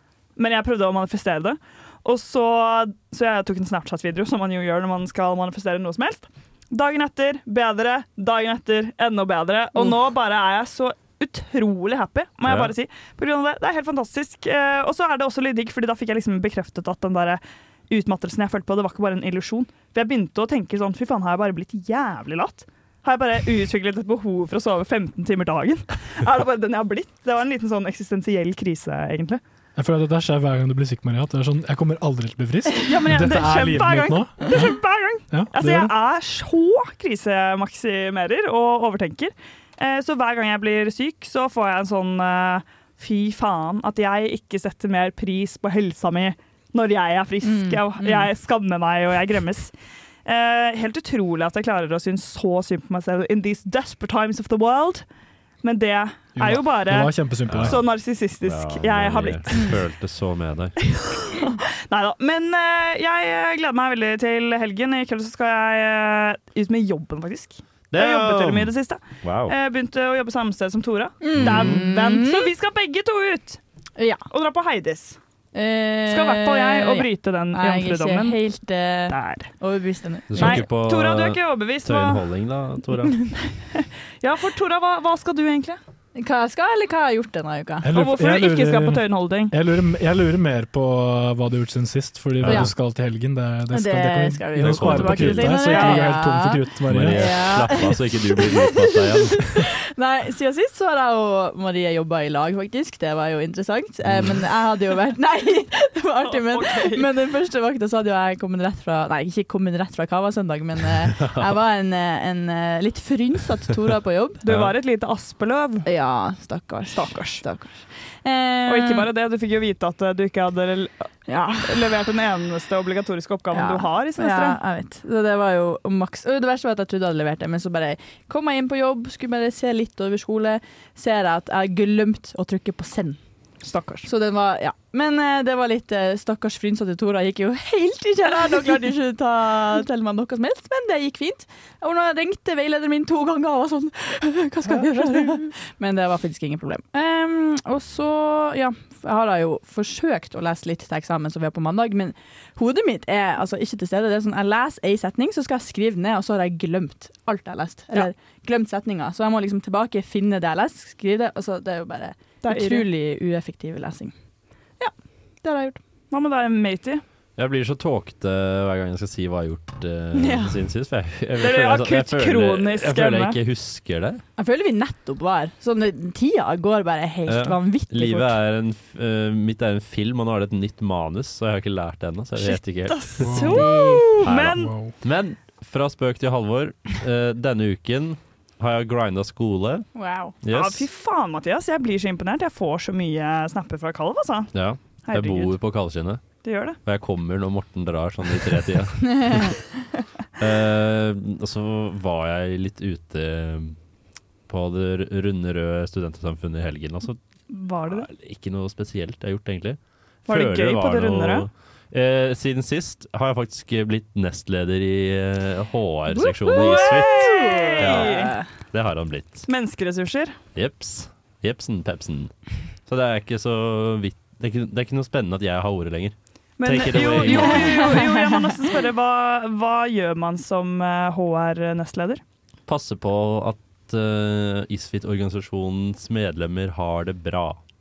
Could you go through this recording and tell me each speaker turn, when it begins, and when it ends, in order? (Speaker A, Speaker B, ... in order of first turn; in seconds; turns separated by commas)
Speaker A: 0.4-29.4, Speaker B: 12.4-12.7, Speaker C: 29.8-34.5, Speaker A: 32.8-49.7, Speaker C: 35.3-36.0, Speaker D: 47.5-48.3, Speaker A: 50.2-55.0, Speaker A: 55.6-59.8, Speaker C: 56.4-57.8, Speaker B: 57.5-57.8, Speaker B: 58.4-60.8, Speaker A: 61.2-73.6, Speaker B: 67.9-69.5, Speaker D: 71.2-72.5, Speaker B: 71.4-71.8, Speaker D: 74.0-74.2, Speaker A: 74.3-75.2, Speaker D: 75.5-80.6, Speaker A: 76.1-78.4, Speaker A: 79.1-79.5, Speaker B: 80.3-83.2, Speaker A: 80.4-82.2, Speaker A: 83.7-85.8, Speaker D: 86.2-87.9, Speaker C: 87.8-97.3, Speaker A: 87.9-89.5, Speaker B: 92.4-92.7, Speaker D: 93.7-114.4, Speaker B: 94.6-95.9, Speaker B: 96.9-99.5, Speaker B: 104.0-104.4, Speaker A: 106.2-107.1, Speaker A: 114.4-115.9, Speaker B: 114.5-114.8, Speaker D: 115.8-119.1, Speaker A: 116.9-117.4, Speaker A: 118.7-121.1, Speaker D: 121.3-121.8, Speaker A: 121.6-124.6, Speaker D: 123.5-133.2, Speaker A: 133.6-134.1, Speaker D: 134.1-164.1, Speaker A: 138.2-138.9, Speaker A: 144.7-145.4, Speaker A: 162.4-162.9, Speaker D: 164.8-165.8, Speaker A: 166.1-167.0, Speaker B: 167.4-174.2, Speaker D: 170.2-170.6, Speaker A: 171.4-173.4, Speaker D: 174.4-178.4, Speaker B: 177.3-183.6, Speaker A: 182.4-184.7, Speaker C: 183.2-183.6, Speaker D: 183.4-184.1, Speaker B: 184.2-189.9, Speaker C: 184.5-184.9, Speaker D: 189.9-190.3, Speaker B: 190.4-190.9, Speaker A: 190.5-194.5, Speaker B: 194.5-196.2, Speaker A: 195.1-195.6, Speaker A: 196.4-196.8, Speaker B: 196.8-199.6, Speaker B: 200.4-203.8, Speaker B: 204.5-207.2, Speaker A: 207.5-208.1, Speaker B: 207.9-219.5, Speaker A: 210.3-211.5, Speaker D: 216.1-218.5, Speaker A: 216.5-218.4, Speaker A: 219.5-220.4, Speaker B: 220.6-222.3, Speaker B: 222.9-228.0, Speaker A: 226.6-232.2, Speaker D: 227.1-228.4, Speaker B: 232.7-237.6